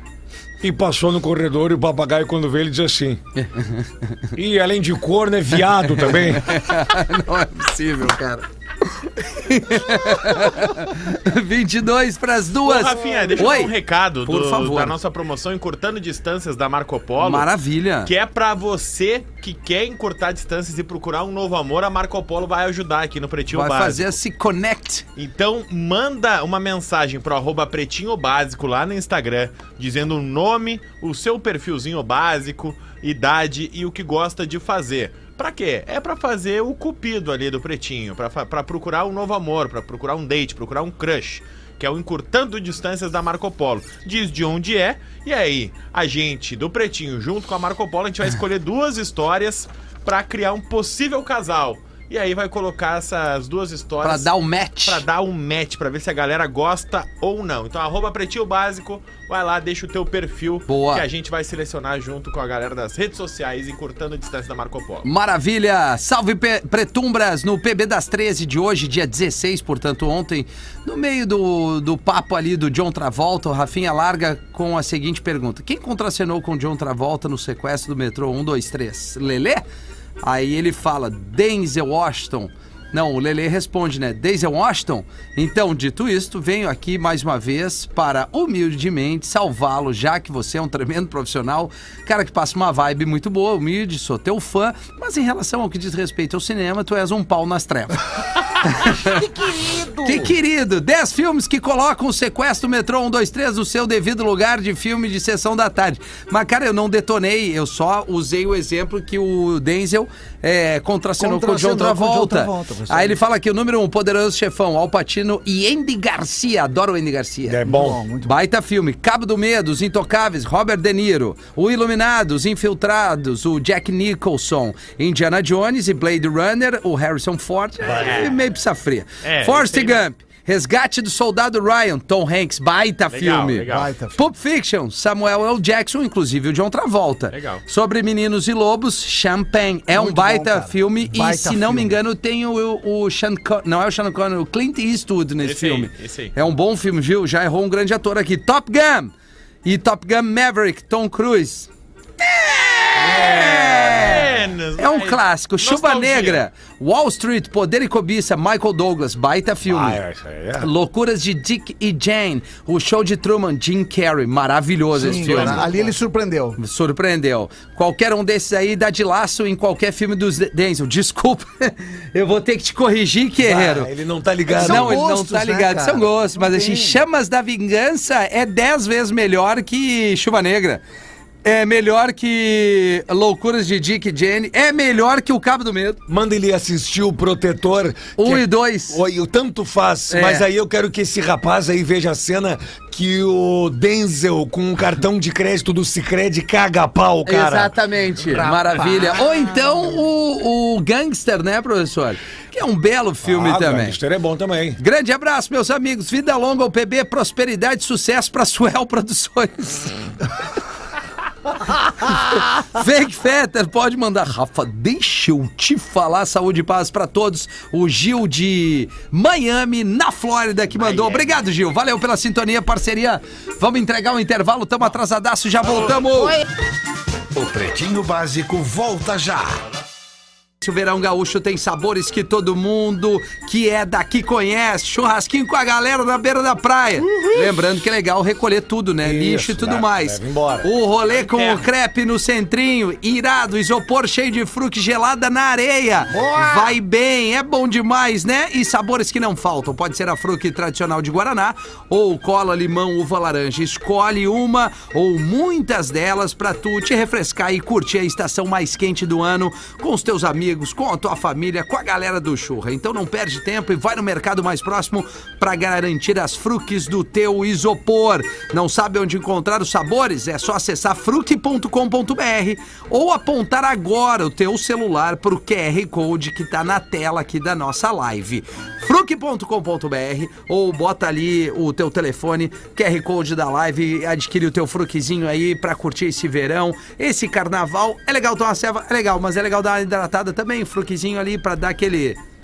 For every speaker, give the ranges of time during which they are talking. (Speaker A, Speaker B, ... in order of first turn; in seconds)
Speaker A: 0.6-3.2, 4.3-6.6, 117.4-118.0, 127.9-128.2, 153.0-153.9, 159.7-160.7, 173.4-175.0, 186.1-197.7, 203.2-204.8, 239.0-240.7
Speaker B: 3.4-4.3, 5.5-13.7, 14.2-14.9, 17.2-18.1, 23.5-25.0, 54.0-55.0, 60.7-61.0, 65.0-79.6, 80.2-98.0, 98.6-99.2, 100.0-117.6, 118.2-133.6, 134.2-149.1, 149.6-151.7, 152.2-160.0, 160.6-165.8, 166.6-173.9, 174.6-180.8, 181.4-186.0, 188.2-189.0, 190.1-190.5, 197.2-204.0, 204.8-210.0, 211.7-226.4, 230.6-292.2
Speaker C: 12.6-17.5, 18.0-24.2, 25.1-54.3, 54.8-65.1, 127.9-128.4, 129.2-130.0, 133.1-133.9, 137.3-137.6, 145.4-146.3, 153.1-156.4, 165.0-165.9, 220.7-221.4, 237.1-237.4, 241.1-241.7
Speaker D: 98.8-100.3, 111.2-113.2, 117.6-118.4, 133.7-134.2, 139.9-142.0, 164.9-166.6, 174.5-177.0, 198.3-200.0, 246.1-246.8
Speaker E: 227.3-229.6